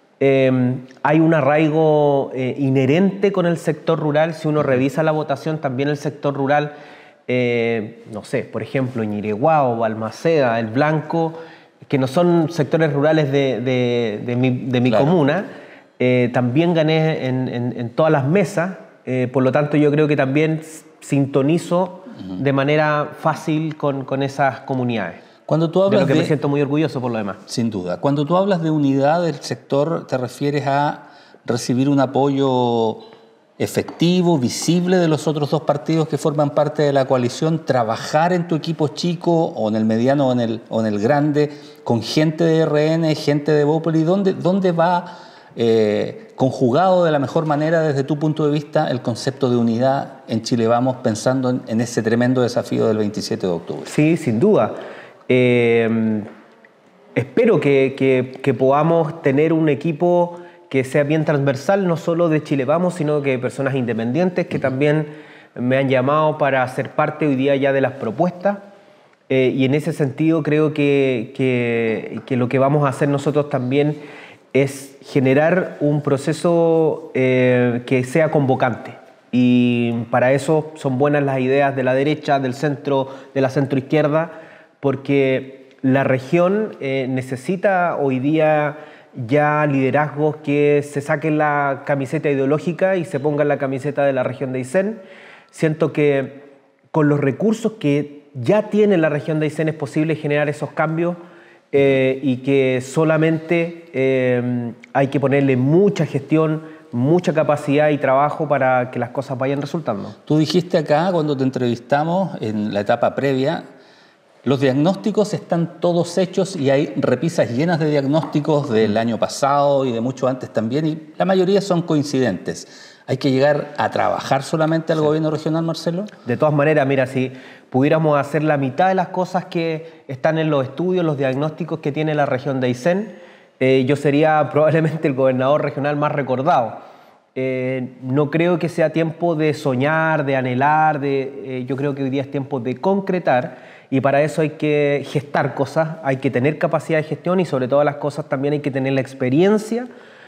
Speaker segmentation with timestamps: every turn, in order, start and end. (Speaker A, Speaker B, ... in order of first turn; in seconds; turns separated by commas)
Speaker A: 0.2-6.7, Speaker A: 7.3-25.2, Speaker B: 25.5-26.3, Speaker A: 25.9-27.4, Speaker B: 27.5-33.0, Speaker B: 33.6-53.9, Speaker A: 53.8-54.8, Speaker A: 55.3-56.3, Speaker A: 57.1-68.6, Speaker A: 69.3-74.0, Speaker A: 74.5-101.2, Speaker A: 101.7-110.2, Speaker B: 110.3-113.6, Speaker B: 114.4-126.1, Speaker A: 126.2-136.8, Speaker A: 137.3-149.9